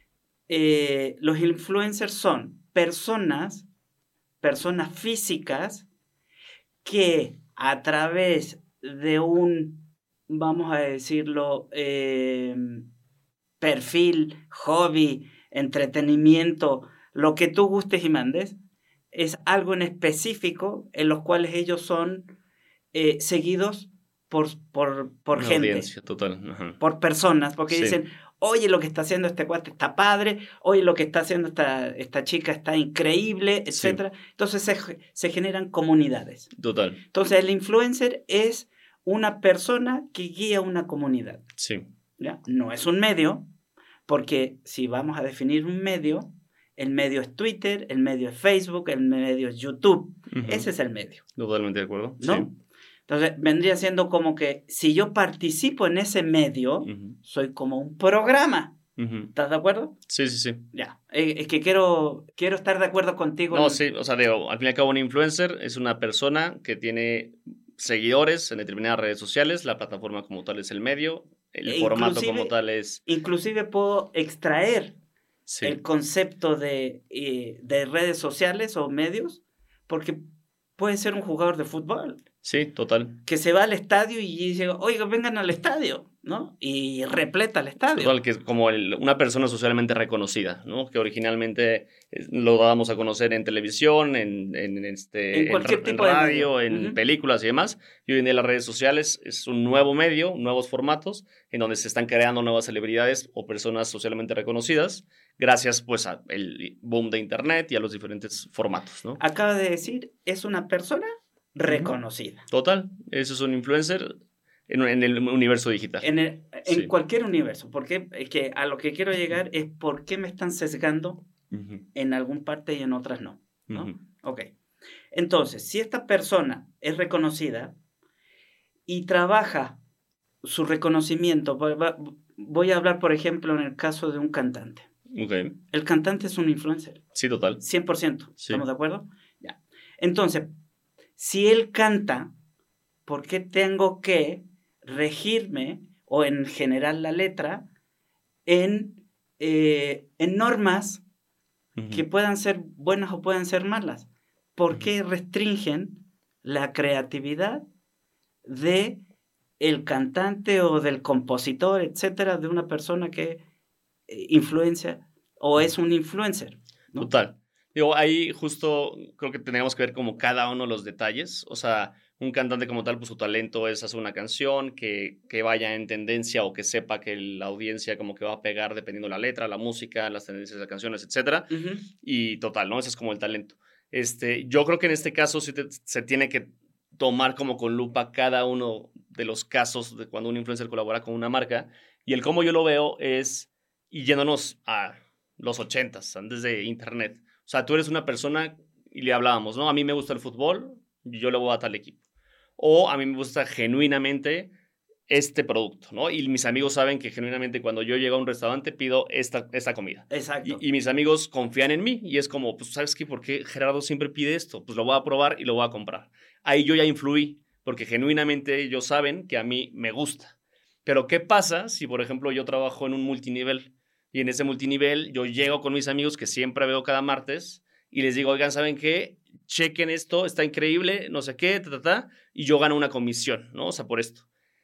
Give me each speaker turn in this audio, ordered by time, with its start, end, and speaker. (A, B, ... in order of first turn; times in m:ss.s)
0:00.5-0:03.7 A
0:04.4-0:05.9 A
0:06.8-0:12.8 A
0:13.6-0:18.6 A
0:19.1-0:22.3 A
0:22.9-0:25.9 A
0:25.4-0:26.8 B
0:26.8-0:36.5 A
0:27.7-0:28.0 B
0:33.7-0:34.0 B
0:36.6-0:37.0 B
0:37.1-0:41.4 A
0:41.6-0:41.9 B
0:42.2-0:43.5 A
0:44.1-0:51.2 A
0:50.3-0:50.7 B
0:51.4-0:52.5 B
0:52.2-0:52.5 A
0:53.1-0:58.8 A
0:56.9-0:57.2 B
0:59.0-0:59.3 B
0:59.3-1:00.0 A
1:00.1-1:00.7 B
1:00.7-1:03.8 A
1:03.5-1:13.0 B
1:11.7-1:12.5 A
1:13.1-1:15.0 A
1:15.5-1:15.8 B
1:15.6-1:20.2 A
1:20.8-1:22.2 A
1:22.4-1:23.2 B
1:23.2-1:28.1 A
1:27.9-1:49.2 B
1:35.3-1:37.0 A
1:49.2-1:52.5 A
1:51.7-1:51.9 B
1:52.5-1:54.2 B
1:54.7-1:56.1 B
1:56.0-2:01.2 A
1:56.6-1:56.9 B
2:01.5-2:01.8 B
2:02.0-2:04.5 A
2:03.7-2:04.0 B
2:05.1-2:07.8 A
2:08.9-2:09.8 A
2:10.4-2:14.9 A
2:15.1-2:15.6 B
2:15.7-2:17.0 A
2:17.2-2:17.6 B
2:17.6-2:20.5 A
2:21.2-2:22.3 A
2:23.1-2:27.7 A
2:28.5-2:31.0 A
2:31.8-2:32.0 B
2:31.9-2:37.6 A
2:38.4-2:39.0 A
2:39.6-2:43.4 A
2:44.1-2:47.1 A
2:47.0-3:22.0 B
3:01.5-3:01.8 A
3:22.6-3:24.5 B
3:25.1-3:40.3 B
3:30.1-3:30.6 A
3:40.8-3:54.2 B